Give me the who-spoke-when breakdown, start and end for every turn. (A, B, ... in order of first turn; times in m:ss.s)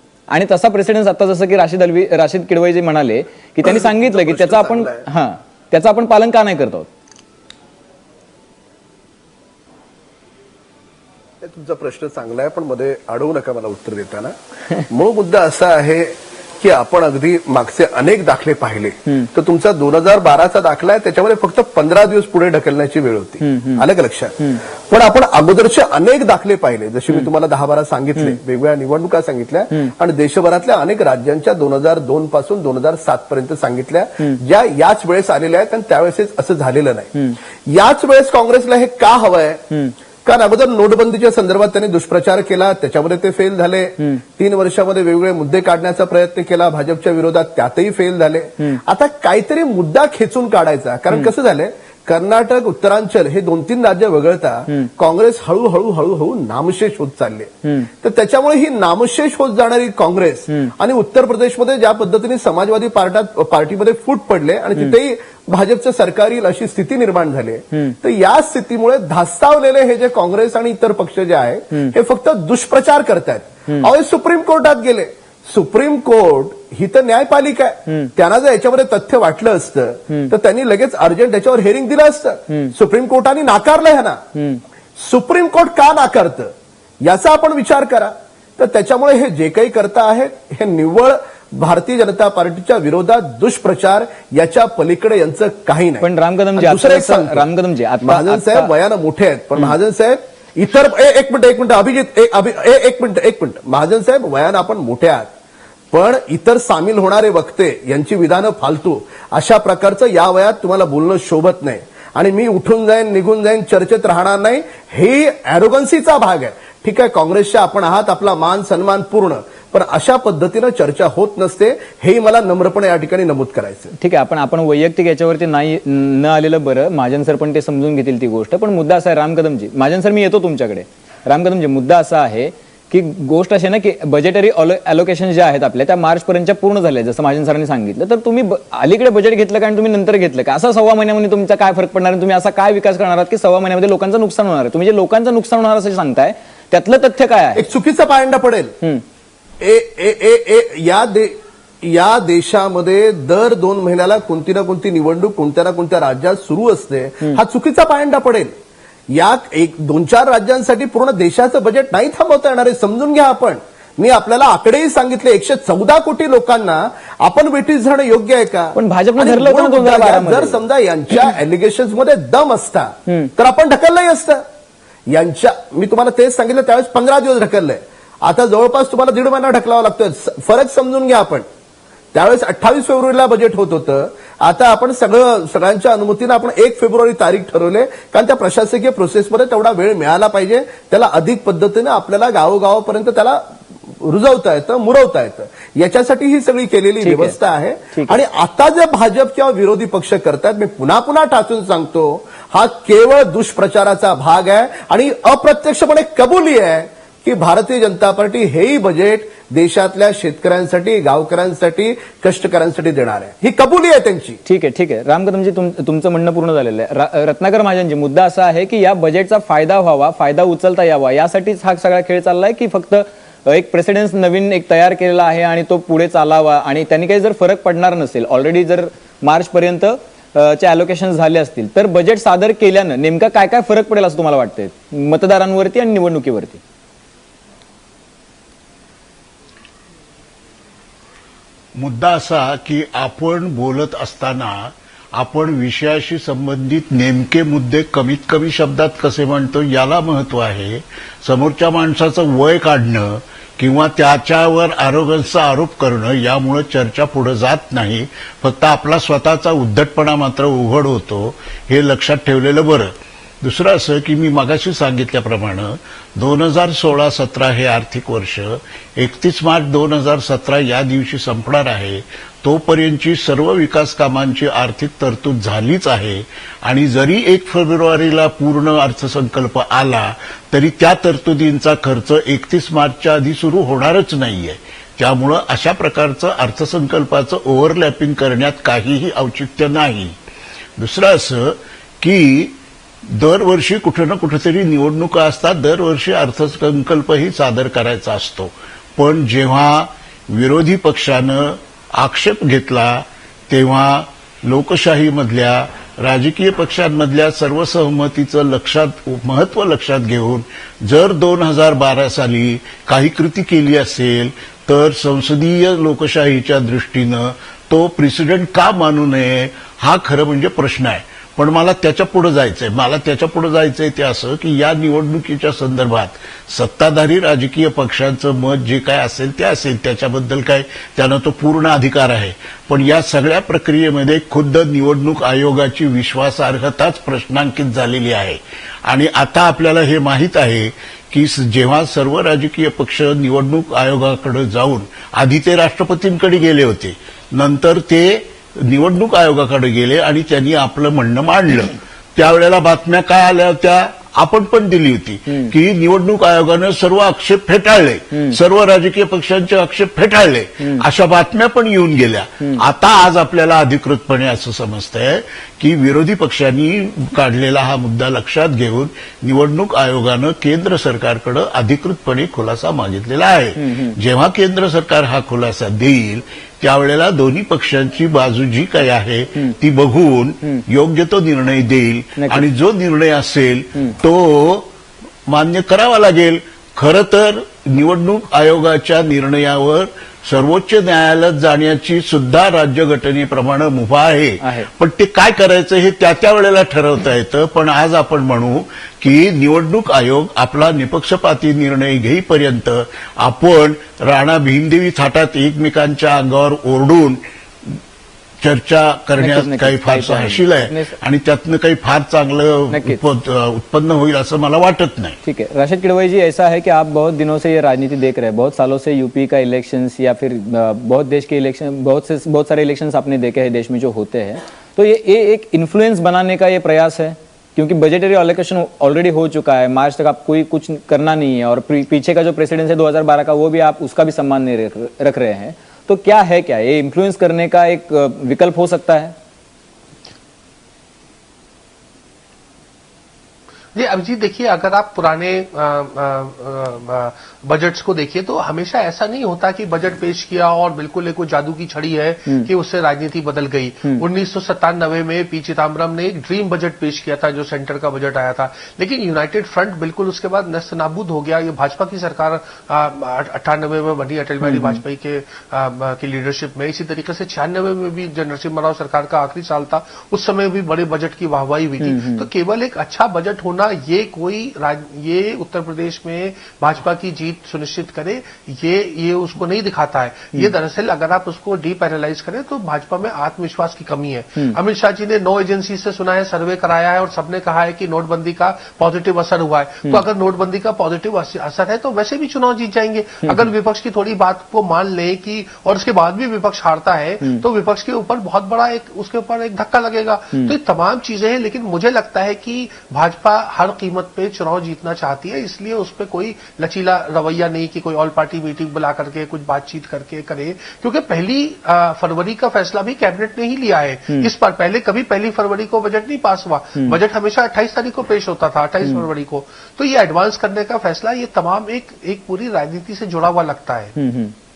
0:00.3-0:06.9 A
0:03.6-0:05.0 B
0:11.4-0:14.3 B
0:14.9-0:37.1 B
0:23.4-0:23.8 A
0:37.7-0:39.6 B
0:40.2-1:24.2 B
1:24.4-1:24.6 A
1:25.0-1:37.5 B
1:36.0-1:38.7 A
1:38.0-1:45.3 B
1:45.9-2:03.9 B
2:04.0-2:27.7 A
2:27.6-2:28.8 B
2:29.6-2:38.5 B
2:39.1-2:54.4 B
2:48.8-2:50.6 A
2:55.1-3:01.5 B
3:02.1-3:34.4 B
3:17.0-3:17.4 A
3:34.4-3:56.6 A
4:01.8-4:50.1 C
4:50.8-4:52.6 C
4:53.1-6:24.7 C
6:13.6-6:14.0 A
6:22.2-6:22.4 A
6:25.3-6:47.8 C
6:34.4-6:34.7 A
6:48.4-6:55.2 C
6:49.2-6:51.0 A
6:52.7-6:53.0 A
6:55.2-7:19.2 A
7:23.8-8:44.0 D
7:44.4-7:44.8 A
7:51.8-7:52.3 A
8:13.2-8:13.5 A
8:44.0-8:44.4 A